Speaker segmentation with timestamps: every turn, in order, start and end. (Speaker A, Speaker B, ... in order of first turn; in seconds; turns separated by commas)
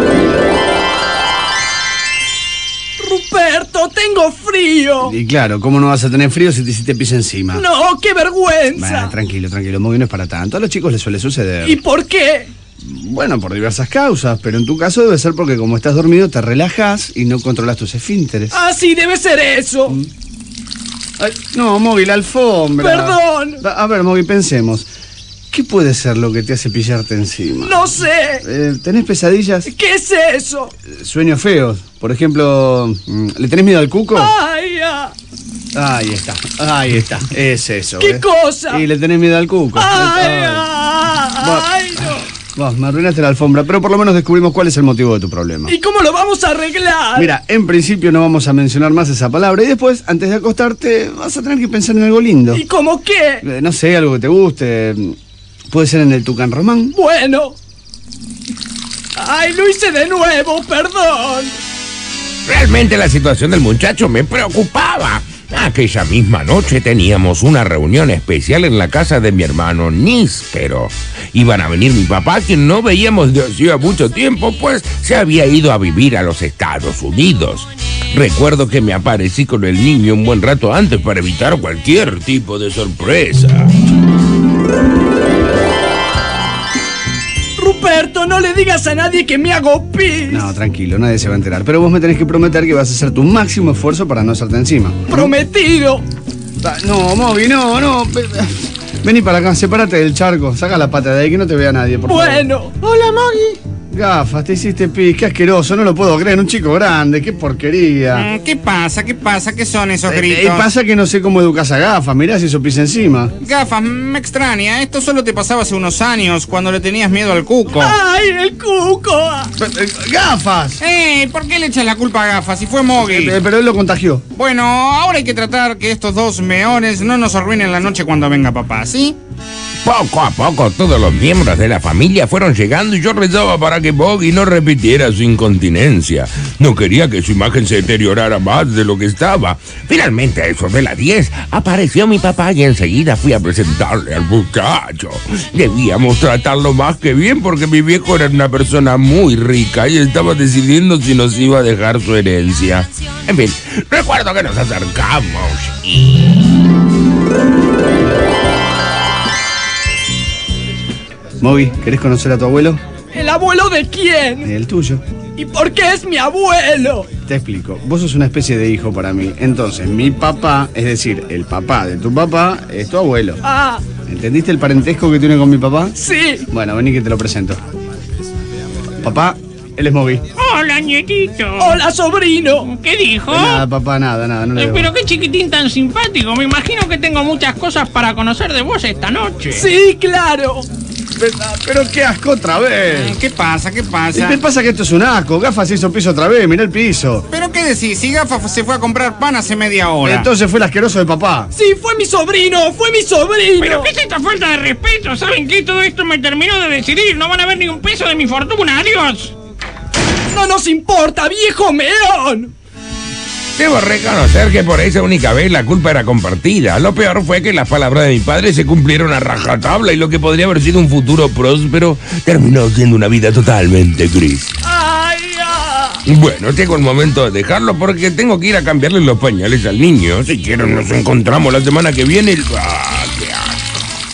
Speaker A: 3.0-5.1, Speaker B: 5.0-7.7, Speaker A: 7.5-9.1, Speaker B: 8.8-11.8, Speaker A: 11.6-12.5, Speaker B: 12.8-18.6, Speaker A: 18.5-20.0, Speaker B: 21.2-24.9, Speaker A: 22.8-23.6, Speaker B: 25.5-27.9, Speaker A: 27.6-28.4, Speaker B: 28.4-29.7, Speaker A: 29.6-30.7, Speaker B: 30.9-34.3, Speaker A: 34.1-35.1, Speaker B: 35.7-40.7, Speaker A: 38.0-38.9, Speaker A: 39.7-42.3, Speaker B: 41.4-45.7, Speaker A: 45.7-47.3, Speaker B: 47.1-52.6, Speaker A: 52.5-53.4, Speaker B: 53.4-55.1, Speaker B: 55.7-56.9, Speaker A: 56.9-57.6, Speaker A: 59.1-61.5, Speaker C: 62.5-83.7, Speaker A: 87.5-90.5, Speaker B: 90.3-95.3, Speaker A: 95.1-96.0, Speaker B: 96.6-102.5, Speaker A: 102.0-102.7, Speaker D: 102.8-103.6, Speaker B: 103.9-108.3, Speaker D: 108.1-110.7, Speaker B: 110.0-113.3, Speaker D: 113.4-118.0, Speaker A: 117.7-119.5, Speaker B: 119.6-120.8, Speaker D: 120.8-123.4, Speaker B: 123.0-124.3, Speaker D: 124.3-129.2, Speaker C: 129.8-156.5, Speaker B: 161.4-162.8, Speaker A: 163.1-164.5, Speaker B: 164.4-165.0, Speaker A: 165.3-167.1, Speaker B: 167.2-173.4, Speaker A: 173.4-173.8, Speaker B: 174.1-175.9, Speaker A: 175.9-176.4, Speaker B: 176.5-177.6, Speaker B: 179.0-180.2, Speaker E: 180.3-181.8, Speaker A: 181.6-182.7, Speaker E: 182.6-183.7, Speaker B: 183.3-184.9, Speaker E: 184.6-189.7, Speaker A: 189.5-190.7, Speaker B: 191.2-193.2, Speaker D: 192.9-194.4, Speaker B: 194.1-197.2, Speaker D: 197.3-200.3, Speaker B: 200.0-201.5, Speaker A: 201.5-203.9, Speaker E: 203.6-209.3, Speaker A: 210.3-212.5, Speaker C: 213.5-224.5, Speaker A: 224.6-226.0, Speaker C: 226.1-233.8